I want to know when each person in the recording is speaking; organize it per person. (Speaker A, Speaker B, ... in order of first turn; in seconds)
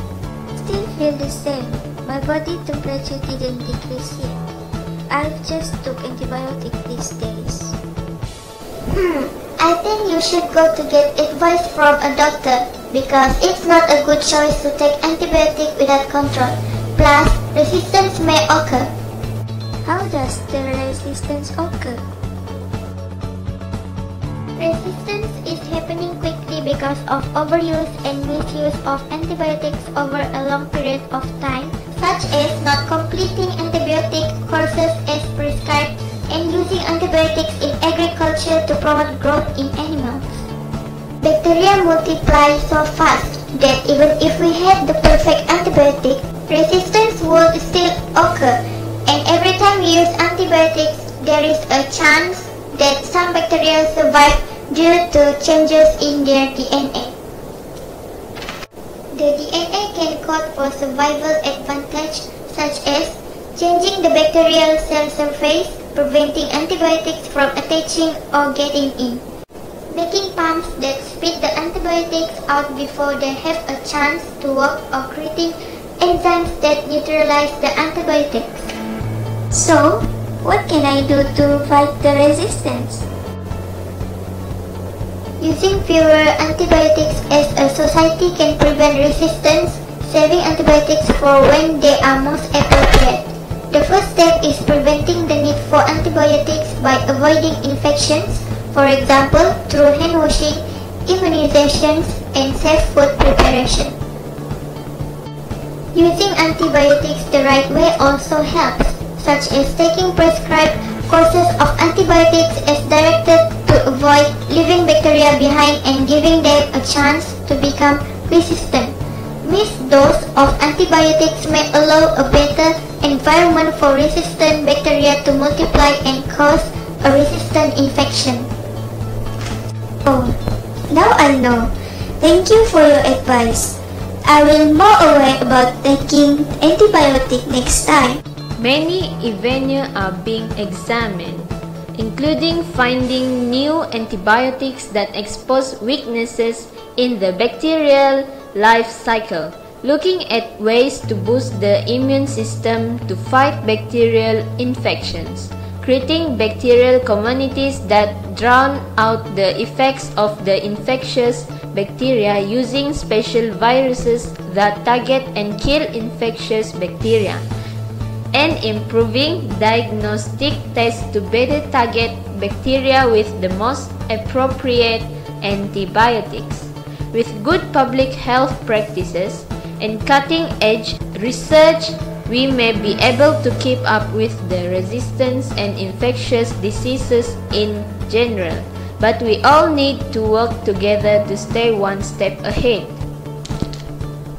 Speaker A: 0.6-4.3, 5.1-7.8, 19.9-22.0, 79.5-83.1, 130.1-130.4, 130.9-138.2
Speaker B: 8.9-18.9, 24.6-40.5, 41.2-57.1, 59.1-69.2, 69.9-78.7, 85.4-104.0, 105.9-128.5
Speaker C: 138.6-167.5, 168.3-193.0